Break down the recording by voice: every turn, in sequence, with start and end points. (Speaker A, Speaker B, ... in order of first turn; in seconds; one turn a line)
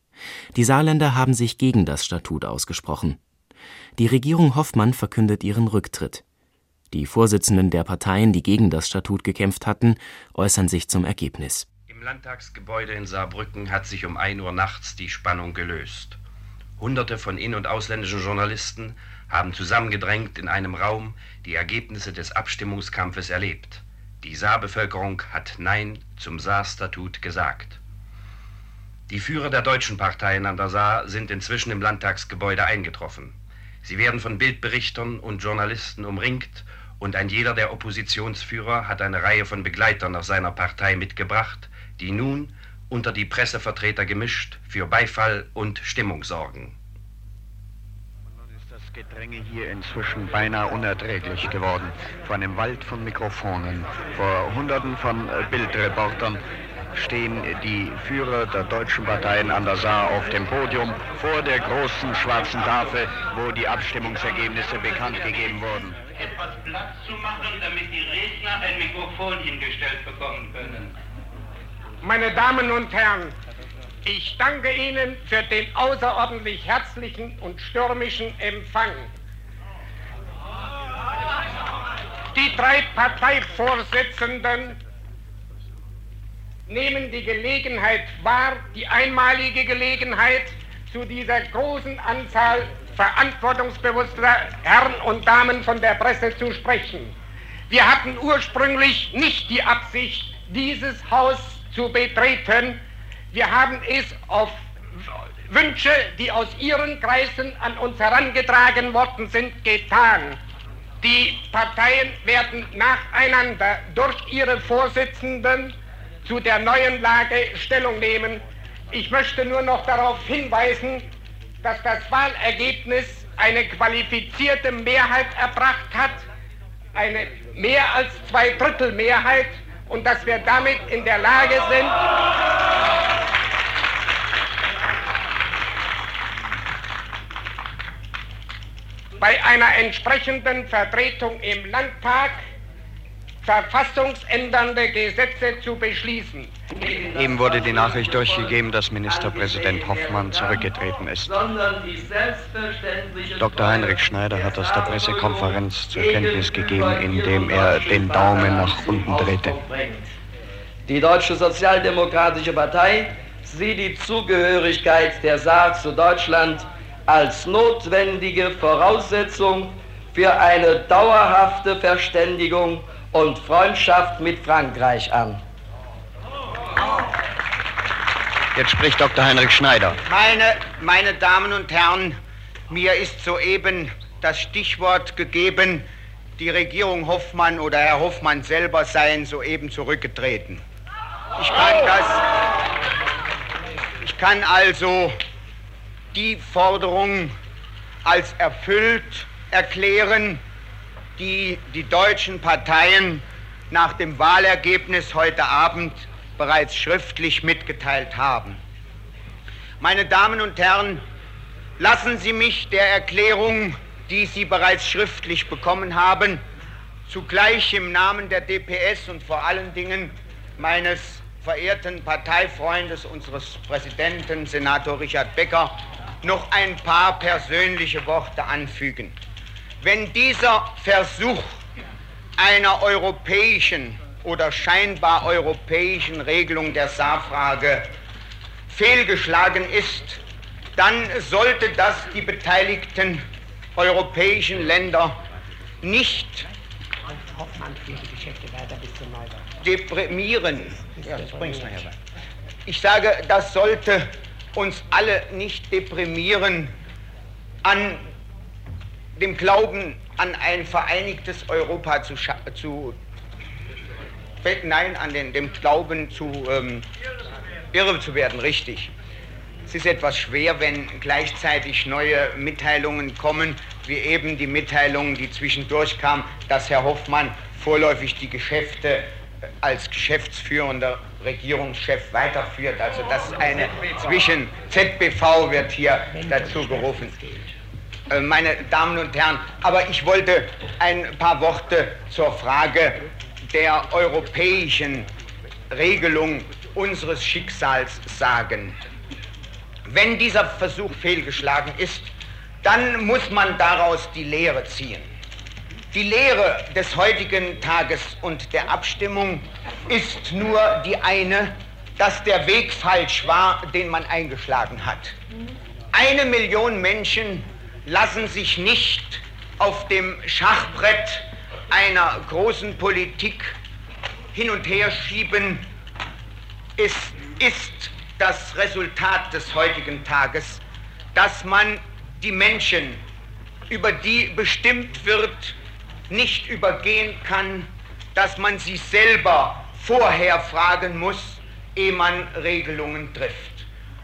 Speaker A: 0.6-3.2
Speaker A: 4.0-6.2
Speaker A: 6.9-11.7
Speaker B: 11.9-16.2
Speaker B: 16.8-27.8
Speaker B: 29.1-46.8
Speaker C: 48.6-56.4
Speaker C: 56.9-66.0
Speaker D: 66.2-70.9
Speaker E: 72.0-73.3
Speaker E: 74.0-79.1
Speaker E: 82.3-84.8
Speaker E: 86.7-97.2
Speaker E: 97.7-102.8
Speaker E: 103.3-110.4
Speaker E: 111.0-121.1
Speaker E: 121.6-126.2
Speaker E: 126.9-132.0
Speaker E: 139.2-142.5
Speaker E: 143.4-146.5
Speaker F: 146.7-150.7
Speaker C: 147.2-151.4
Speaker F: 151.2-160.1
Speaker C: 153.4-159.5
Speaker F: 160.9-175.4
Speaker C: 178.6-180.0
Speaker G: 180.1-182.2
Speaker G: 182.7-185.8
Speaker G: 186.4-190.6
Speaker G: 191.4-192.3
Speaker G: 194.0-195.2
Speaker G: 196.1-197.3
Speaker G: 198.1-200.4
Speaker G: 201.2-208.6
Speaker G: 209.8-211.0
Speaker G: 211.8-216.4
Speaker G: 217.1-229.2
Speaker G: 229.8-231.6
Speaker G: 232.4-237.9
Speaker G: 238.7-240.2
Speaker G: 240.8-243.2
Speaker G: 243.8-245.2
Speaker G: 245.8-246.5
Speaker E: 247.4-249.4
Speaker G: 249.6-252.0
Speaker G: 252.7-256.7
Speaker G: 257.6-258.0
Speaker G: 259.2-263.0
Speaker G: 264.4-266.9
Speaker G: 267.7-268.9
Speaker G: 269.7-279.1
Speaker G: 279.6-287.3
Speaker G: 288.1-293.0
Speaker G: 293.5-295.1
Speaker G: 295.7-298.8
Speaker G: 299.9-302.1
Speaker G: 302.6-305.1
Speaker G: 305.9-315.1
Speaker G: 315.9-323.5
Speaker G: 324.3-325.7
Speaker G: 326.8-330.6
Speaker G: 331.1-333.0
Speaker G: 333.7-335.6
Speaker G: 336.1-343.7